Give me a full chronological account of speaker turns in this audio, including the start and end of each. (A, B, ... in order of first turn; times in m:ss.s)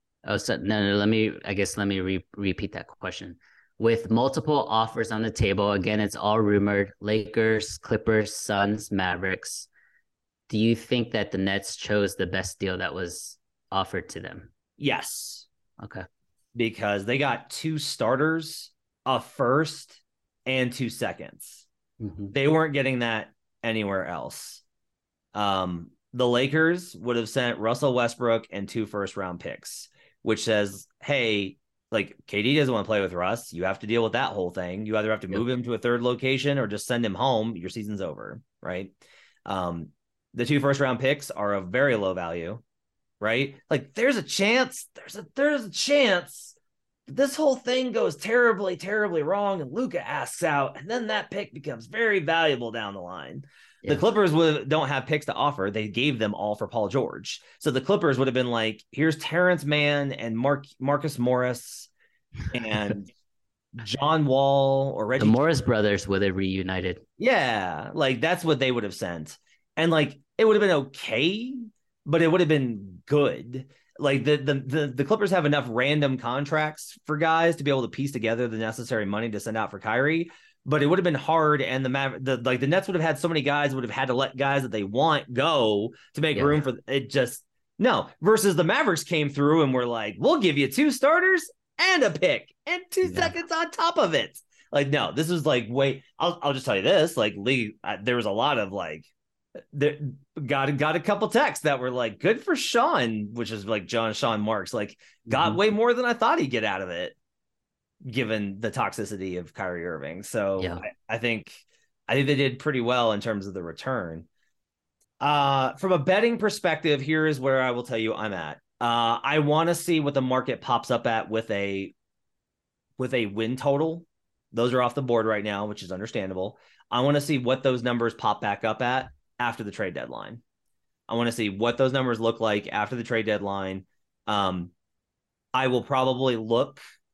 0:00.3-0:09.7 A
0:10.5-0:14.5 A
0:14.8-0:15.5 B
0:16.6-0:21.6 B
0:22.0-0:22.4 A
0:22.3-0:24.6 B
0:25.3-0:39.0 B
0:39.5-0:42.6 B
0:43.2-0:46.6 B
0:47.1-1:01.9 B
1:02.5-1:03.1 B
1:03.8-1:05.4 B
1:05.2-1:07.0 A
1:07.2-1:39.1 B
1:26.4-1:26.6 A
1:33.0-1:33.3 A
1:39.7-1:47.2 B
1:45.3-1:45.6 A
1:48.0-1:54.3 B
1:55.2-2:01.9 B
2:03.0-2:10.4 B
2:11.1-2:14.7 B
2:15.5-2:16.8 B